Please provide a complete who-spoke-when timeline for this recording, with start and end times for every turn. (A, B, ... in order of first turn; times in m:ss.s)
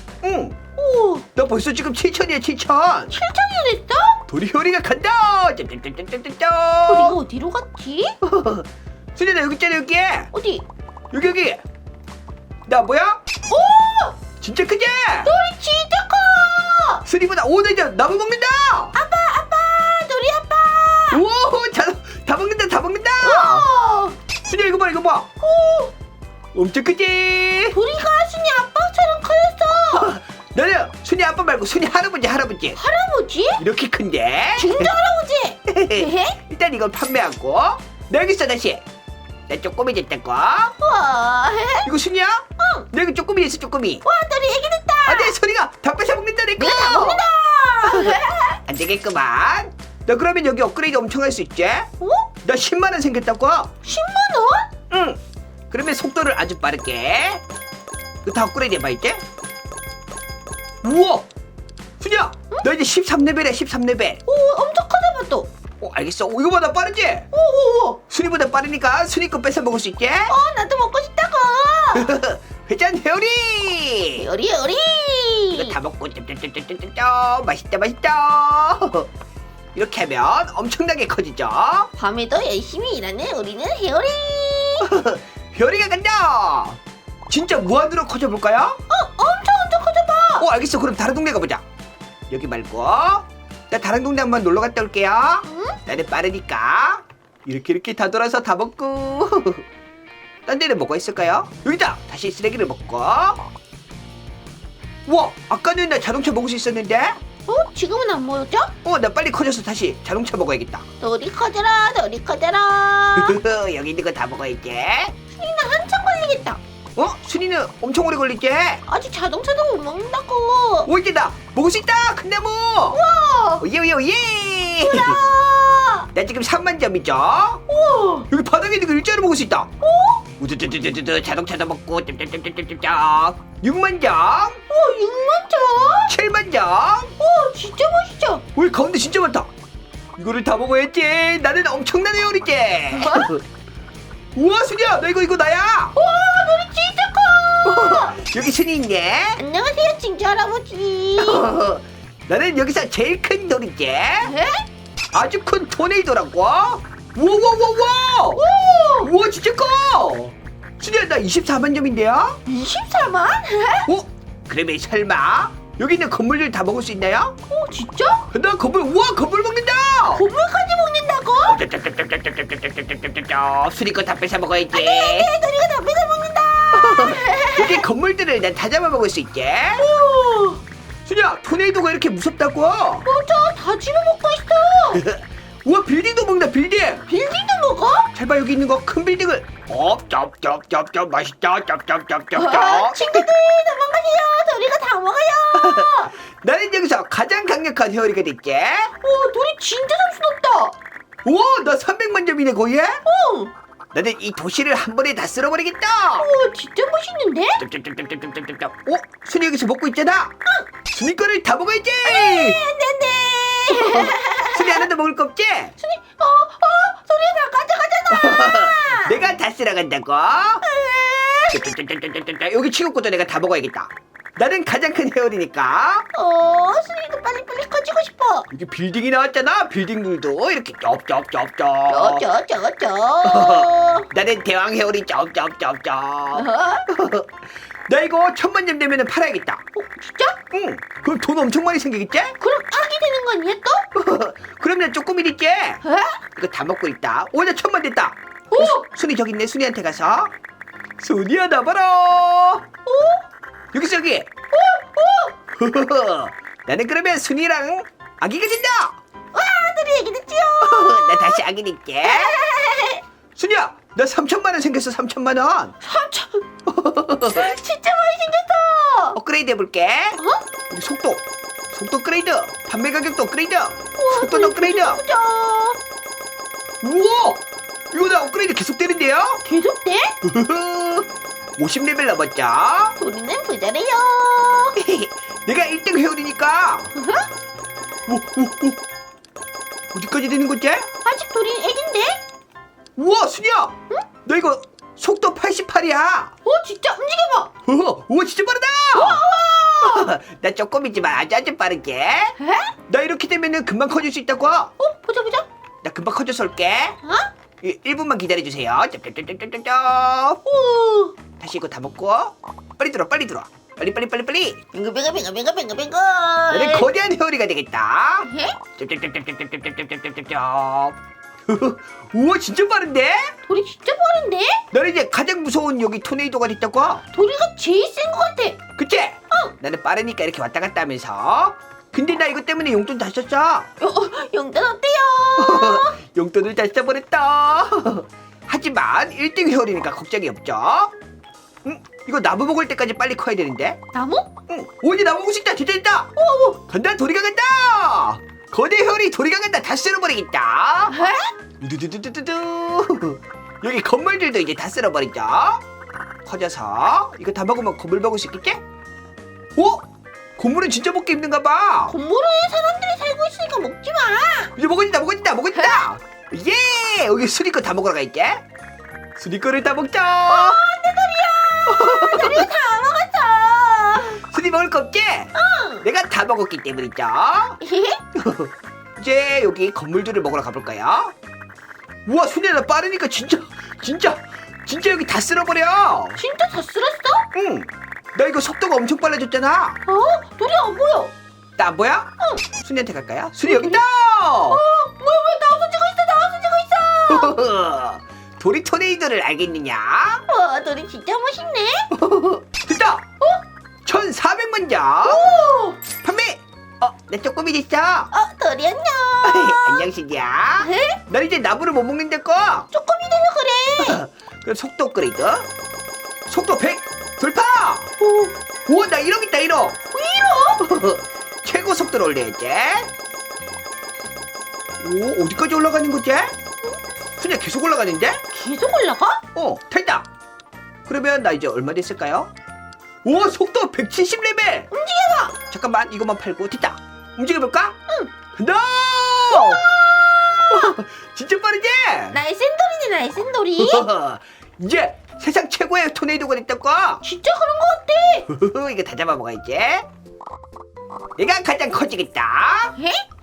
0:00.2-0:00.6 A
0:00.8-0:01.2 B
0:01.3-0:03.1 A
0:03.1-0:04.2 B
0:04.3-0:07.2 A
0:06.9-0:08.2 B
0:08.2-0:10.3 A
0:10.3-0:10.6 B
0:11.1-0:11.6 A
0:12.7-0:13.2 A
0:13.5-0:14.2 B
0:14.4-0:15.3 A
0:15.2-0:17.0 B
0:17.0-0:19.0 A
0:18.9-0:21.2 B
0:21.1-0:23.7 A
0:23.2-0:24.2 B
0:24.4-0:25.3 A
0:25.4-0:25.9 B
0:26.5-0:27.8 A
0:27.7-0:30.1 B
0:29.9-0:32.8 A
0:32.8-0:33.6 B
0:33.6-0:34.9 A
0:34.6-0:36.4 B
0:35.7-0:38.8 A
0:39.5-0:40.7 A
0:40.8-0:41.9 B
0:41.8-0:44.0 A
0:42.6-0:42.9 B
0:44.0-0:45.4 B
0:45.0-0:47.2 A
0:46.6-0:48.6 B
0:47.8-0:51.9 A
0:52.0-0:52.3 B
0:52.4-0:53.7 A
0:53.8-0:54.7 B
0:54.9-0:55.2 A
0:55.7-0:57.4 A
0:58.2-0:59.2 A
1:00.8-1:01.2 A
1:02.0-1:04.2 A
1:04.2-1:05.5 B
1:05.8-1:07.3 A
1:07.3-1:08.0 B
1:08.1-1:10.3 A
1:10.3-1:12.2 B
1:11.9-1:14.2 A
1:14.2-1:15.8 B
1:15.5-1:19.1 A
1:19.7-1:21.9 A
1:22.0-1:24.9 B
1:24.8-1:28.8 A
1:28.9-1:30.4 B
1:30.4-1:31.6 A
1:32.3-1:39.6 A
1:35.4-1:35.8 B
1:40.5-1:43.4 A
1:45.1-1:47.2 A
1:47.5-1:48.7 B
1:48.8-1:50.8 A
1:51.0-1:53.4 B
1:53.2-1:55.1 A
1:55.3-1:56.6 B
1:57.0-1:58.8 A
1:58.9-2:00.9 B
2:00.8-2:03.0 A
2:02.9-2:03.6 B
2:03.6-2:05.2 A
2:04.8-2:06.1 B
2:06.1-2:07.6 A
2:07.7-2:08.3 B
2:08.3-2:09.7 A
2:09.8-2:10.2 B
2:10.3-2:14.6 A
2:14.7-2:16.1 B
2:16.1-2:17.1 A
2:17.2-2:18.4 B
2:18.5-2:19.5 A
2:20.2-2:23.4 A
2:22.9-2:23.3 B
2:24.3-2:26.0 A
2:25.9-2:28.2 B
2:27.6-2:29.4 A
2:29.4-2:31.5 B
2:31.2-2:34.3 A
2:34.2-2:34.7 B
2:35.1-2:38.4 A
2:38.4-2:39.1 B
2:39.0-2:42.4 A
2:42.4-2:43.9 B
2:43.8-2:47.4 A
2:47.5-2:48.3 B
2:48.3-2:50.2 A
2:50.1-2:51.6 B
2:51.4-2:55.3 A
2:54.7-2:57.8 B
2:56.7-2:59.9 A
2:59.8-3:00.6 B
3:01.0-3:03.0 A
3:03.0-3:05.0 B
3:04.9-3:07.0 A
3:07.1-3:08.1 B
3:08.1-3:13.3 A
3:12.4-3:16.1 B
3:15.5-3:18.9 A
3:19.0-3:20.8 B
3:21.2-3:23.0 A
3:23.0-3:23.5 B
3:23.9-3:26.3 A
3:26.2-3:27.6 B
3:27.6-3:30.3 A
3:30.9-3:32.6 A
3:32.0-3:34.9 B
3:33.7-3:35.7 A
3:35.8-3:39.2 B
3:38.1-3:40.6 A
3:40.6-3:41.6 B
3:41.5-3:46.1 A
3:46.1-3:48.5 B
3:48.5-3:52.2 A
3:51.9-3:54.1 B
3:53.2-3:57.3 A
3:56.3-3:56.9 B
3:57.9-3:59.6 A
3:59.7-4:00.4 B
4:00.5-4:02.4 A
4:02.4-4:03.9 B
4:03.9-4:05.8 A
4:05.8-4:06.2 B
4:06.3-4:10.3 A
4:08.5-4:08.8 B
4:11.0-4:12.6 A
4:12.8-4:13.2 B
4:13.7-4:14.3 A
4:14.5-4:15.4 B
4:15.6-4:19.0 A
4:19.3-4:21.4 B
4:20.6-4:22.4 A
4:22.0-4:23.0 B
4:23.4-4:25.8 A
4:25.8-4:26.4 B
4:26.7-4:27.5 A
4:27.2-4:29.2 B
4:29.1-4:35.0 A
4:30.2-4:30.4 B
4:34.0-4:35.8 B
4:36.8-4:39.4 A
4:39.4-4:40.2 B
4:40.2-4:43.0 A
4:43.0-4:44.8 B
4:44.8-4:46.9 A
4:46.9-4:47.3 B
4:48.1-4:48.8 A
4:49.9-4:50.9 A
4:51.0-4:52.2 B
4:53.0-4:56.3 A
4:56.4-4:57.5 B
4:57.6-4:59.3 A
4:58.9-5:00.1 B
4:59.8-5:02.4 A
5:02.4-5:02.7 B
5:02.9-5:04.7 A
5:04.8-5:05.5 B
5:05.8-5:07.0 A
5:07.0-5:07.3 B
5:07.6-5:10.4 A
5:10.4-5:11.2 B
5:11.4-5:14.6 A
5:14.7-5:16.9 B
5:16.5-5:21.0 A
5:18.2-5:18.6 B
5:21.5-5:23.3 A
5:23.5-5:24.6 B
5:24.7-5:27.0 A
5:27.1-5:28.6 B
5:28.8-5:33.7 A
5:33.8-5:36.0 B
5:35.4-5:40.9 A
5:41.6-5:43.8 A
5:43.9-5:44.3 B
5:44.5-5:46.1 A
5:46.2-5:46.6 B
5:46.7-5:51.0 A
5:50.9-5:51.3 B
5:51.6-5:55.6 A
5:56.2-5:58.6 A
5:59.6-6:01.9 A
6:01.9-6:04.5 B
6:04.6-6:08.4 A
6:05.5-6:05.8 B
6:09.2-6:10.6 A
6:10.3-6:14.2 B
6:11.7-6:12.5 A
6:14.1-6:17.6 A
6:15.3-6:15.9 B
6:17.6-6:18.0 B
6:18.1-6:21.1 A
6:22.0-6:26.2 A
6:26.2-6:27.3 B
6:27.3-6:29.8 A
6:29.8-6:31.1 B
6:31.6-6:34.6 A
6:32.2-6:32.4 B
6:33.4-6:33.8 B
6:34.5-6:37.4 B
6:37.1-6:40.2 A
6:40.3-6:41.9 B
6:41.9-6:43.0 A
6:43.8-6:45.4 A
6:45.0-6:45.8 B
6:46.0-6:48.1 A
6:48.1-6:49.9 B
6:49.2-6:52.7 A
6:50.6-6:51.0 B
6:52.7-6:54.0 B
6:53.8-6:55.5 A
6:56.3-6:57.9 A
6:58.0-6:58.3 B
6:58.7-6:59.8 A
6:59.9-7:00.6 B
7:00.6-7:02.9 A
7:04.8-7:06.3 A
7:07.2-7:08.2 A
7:08.3-7:09.2 B
7:09.3-7:10.1 A
7:10.8-7:12.3 A
7:13.0-7:14.7 A
7:14.7-7:15.4 B
7:15.5-7:17.8 A
7:17.9-7:18.1 B
7:18.3-7:19.7 A
7:19.3-7:20.8 B
7:20.5-7:22.2 A
7:22.1-7:23.9 B
7:23.6-7:27.0 A
7:27.0-7:28.3 B
7:28.3-7:29.9 A
7:31.2-7:32.7 A
7:32.8-7:33.0 B